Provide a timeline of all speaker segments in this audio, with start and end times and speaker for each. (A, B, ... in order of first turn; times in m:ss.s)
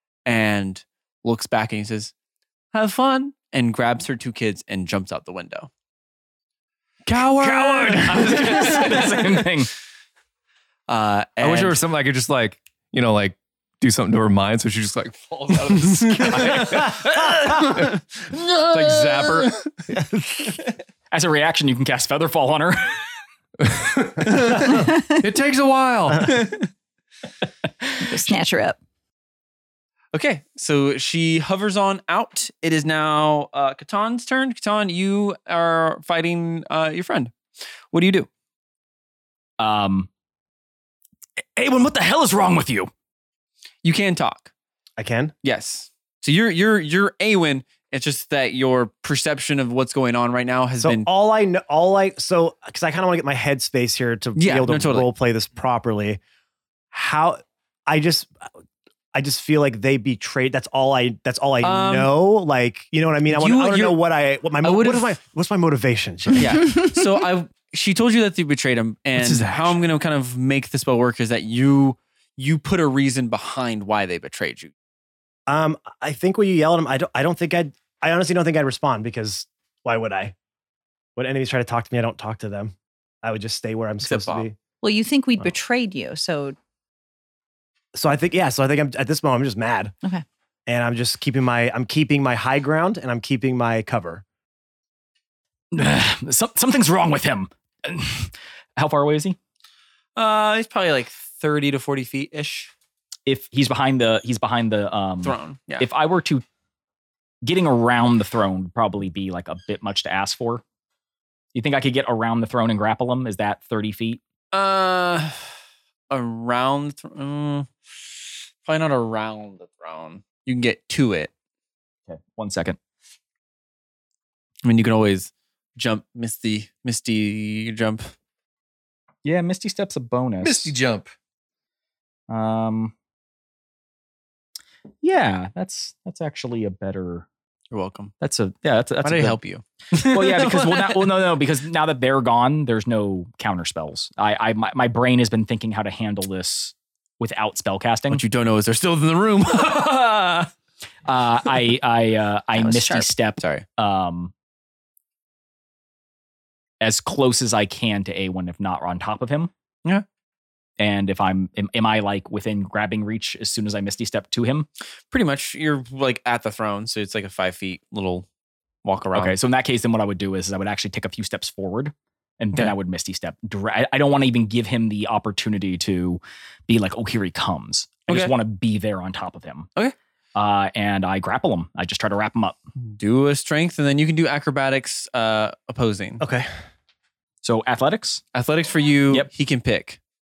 0:00.2-0:02.1 A
0:02.7-0:05.7 A
0:07.0-0:09.3 B
0:07.4-0:09.7 C
0:10.9-0:11.8 A
0:11.4-0:19.5 B
0:16.3-0:17.5 C
0:17.6-0:17.9 A
0:18.7-0:19.5 C
0:21.1-0:23.0 C
0:23.6-0:26.3 B
0:26.2-0:26.7 A
0:28.0-0:28.8 D
0:30.1-0:37.3 A
0:37.9-0:38.3 A
0:39.6-0:40.1 C
0:41.6-0:42.9 C
0:43.8-0:44.5 A
0:45.0-0:45.3 E
0:45.4-0:51.1 A
0:50.8-0:56.2 E
0:54.4-0:55.1 A
0:56.9-0:58.5 E
0:59.1-1:06.8 E
1:01.6-1:02.1 A
1:03.3-1:04.0 A
1:04.6-1:05.2 A
1:06.3-1:14.7 A
1:09.2-1:09.8 B
1:15.5-1:20.3 E
1:21.2-1:24.6 E
1:24.0-1:24.5 A
1:24.8-1:26.6 D
1:27.9-1:29.9 E
1:30.7-1:34.2 E
1:35.7-1:39.4 C
1:40.2-1:42.7 A
1:43.2-1:46.4 C
1:45.2-1:45.8 A
1:47.4-1:50.6 C
1:51.5-1:54.2 C
1:54.5-1:55.4 A
1:56.1-2:01.3 A
2:02.1-2:02.8 C
2:04.6-2:08.1 A
2:09.2-2:10.7 C
2:10.4-2:11.1 B
2:12.3-2:12.9 C
2:15.0-2:17.3 C
2:17.7-2:18.1 A
2:18.2-2:19.4 C
2:19.0-2:21.3 A
2:19.9-2:28.2 C
2:28.1-2:30.5 A
2:31.0-2:34.3 C
2:32.5-2:33.6 A
2:36.8-2:39.5 C
2:40.8-2:44.7 C
2:45.1-2:48.3 A
2:48.8-2:49.4 A
2:49.1-2:59.7 C
2:58.1-2:58.3 A
3:00.3-3:02.6 C
3:02.8-3:06.2 A
3:06.2-3:06.5 E
3:07.4-3:08.2 C
3:08.3-3:10.0 A